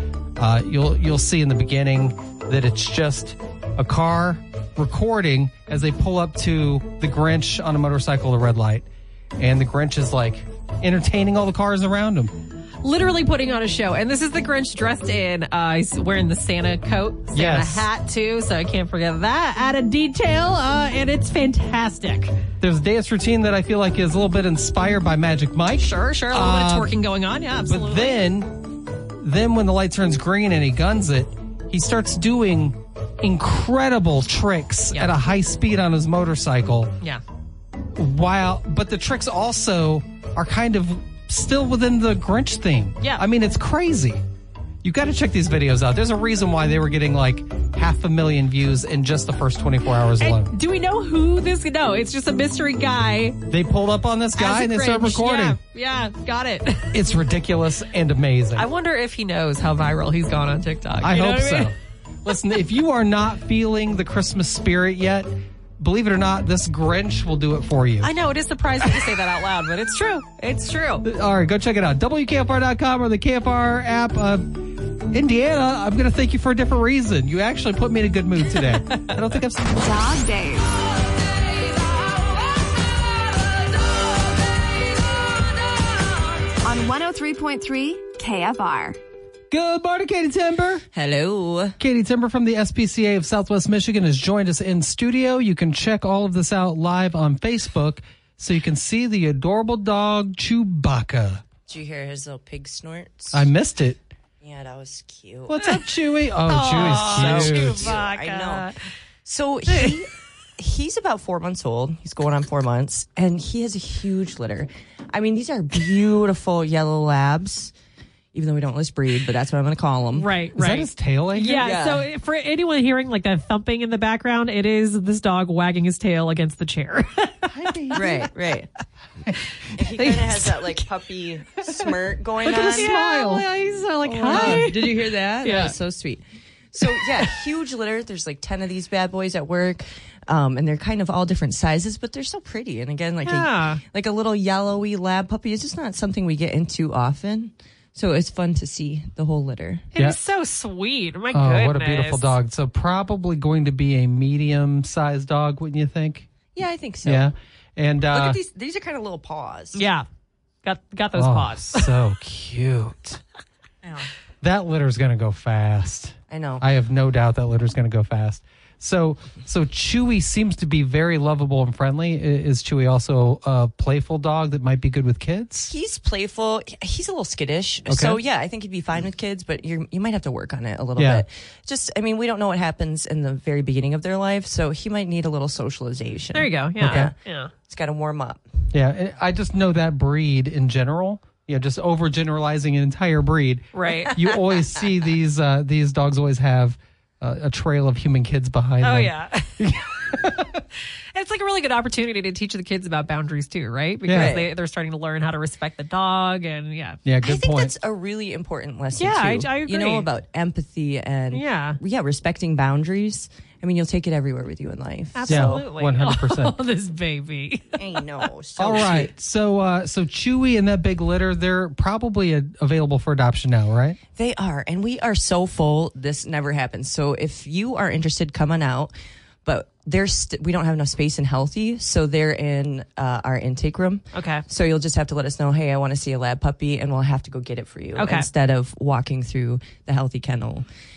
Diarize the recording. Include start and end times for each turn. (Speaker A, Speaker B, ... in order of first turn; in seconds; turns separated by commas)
Speaker A: 0.4-8.8, Speaker A: 9.4-12.3, Speaker B: 12.8-22.3, Speaker A: 17.3-17.9, Speaker A: 22.6-26.9, Speaker B: 25.8-28.2, Speaker A: 27.6-36.9, Speaker A: 37.9-44.2, Speaker A: 44.8-50.5, Speaker B: 50.2-53.4, Speaker A: 53.5-55.6, Speaker B: 54.4-57.0, Speaker A: 56.9-58.7, Speaker B: 58.5-61.7, Speaker A: 61.0-68.1, Speaker B: 68.0-71.1, Speaker A: 71.0-79.8, Speaker C: 79.8-80.7, Speaker C: 86.6-89.0, Speaker A: 89.5-90.8, Speaker D: 90.9-91.8, Speaker A: 91.8-101.4, Speaker D: 101.7-103.5, Speaker A: 103.3-104.0, Speaker D: 104.4-105.5, Speaker A: 105.5-107.9, Speaker B: 106.5-108.8, Speaker D: 106.7-108.7, Speaker D: 109.2-117.7, Speaker B: 109.7-110.0, Speaker D: 118.3-120.3, Speaker B: 120.1-128.2, Speaker A: 120.5-121.8, Speaker D: 121.6-122.1, Speaker A: 127.5-128.2, Speaker D: 127.9-128.7, Speaker B: 129.7-130.8, Speaker D: 129.7-132.9, Speaker A: 132.4-133.4, Speaker B: 132.4-135.8, Speaker A: 134.0-134.7, Speaker D: 134.2-149.9, Speaker B: 143.2-143.8, Speaker B: 149.9-152.3, Speaker A: 151.3-156.3, Speaker D: 156.5-157.3, Speaker A: 157.0-158.4, Speaker D: 158.1-159.8, Speaker B: 159.7-160.1, Speaker B: 160.6-161.9, Speaker A: 161.1-163.2, Speaker A: 164.4-175.7, Speaker D: 166.3-166.6, Speaker D: 175.7-188.4, Speaker A: 177.9-178.2, Speaker A: 181.0-181.2, Speaker B: 186.3-187.5, Speaker A: 186.8-187.1, Speaker A: 188.7-200.6, Speaker B: 193.7-194.2, Speaker B: 198.8-199.7, Speaker B: 201.1-207.0, Speaker A: 204.1-204.4, Speaker D: 204.1-204.5, Speaker A: 207.0-207.7, Speaker D: 207.2-215.6, Speaker B: 208.9-210.1, Speaker B: 211.3-211.8, Speaker B: 215.1-218.0, Speaker A: 215.3-216.5, Speaker D: 217.8-219.1, Speaker A: 218.6-224.0, Speaker D: 224.2-228.9, Speaker D: 229.4-240.7, Speaker B: 234.1-234.4, Speaker B: 237.9-238.3